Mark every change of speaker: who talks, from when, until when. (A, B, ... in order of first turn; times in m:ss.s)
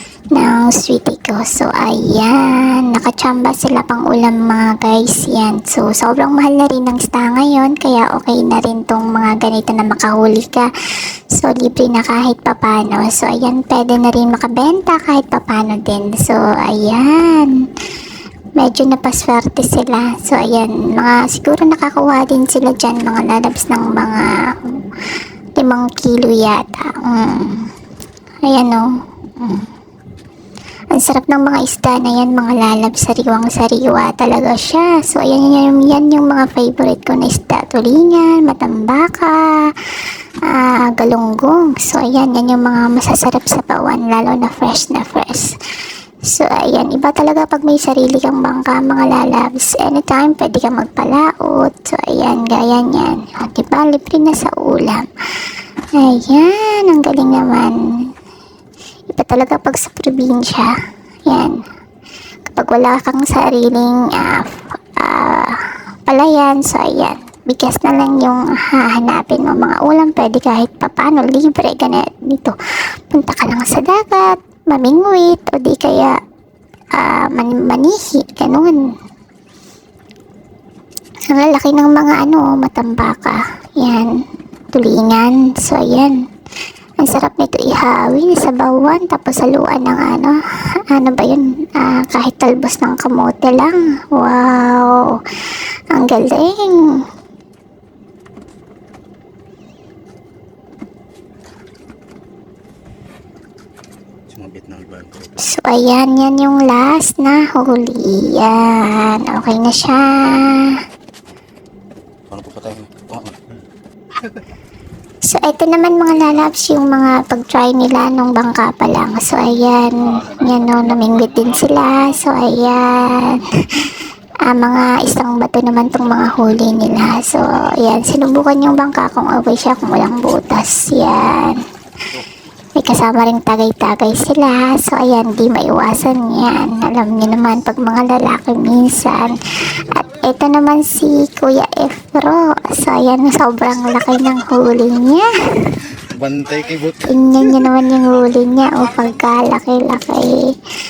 0:00.3-0:10.7 A
0:11.3-0:17.6 A
0:18.6-0:24.8 A
0:25.6-0:27.7 A
0:28.4-0:29.7 A
0:30.9-0:39.8 A
0:40.4-0:45.6 A
0:46.3-0:55.1 A
0:55.9-0:58.1 A
0:59.1-1:00.7 A
1:01.3-1:01.6 A
1:02.4-1:12.6 A
1:13.1-1:16.2 A
1:16.9-1:19.0 A
1:21.3-1:26.2 A
1:27.0-1:30.4 A
1:30.9-1:35.2 A
1:35.9-1:37.0 A
1:44.4-1:45.3 B
1:45.4-1:50.8 A
1:52.3-1:53.3 B
1:55.2-2:11.6 A
2:12.8-2:26.0 A
2:26.2-2:26.8 B
2:26.8-2:30.6 A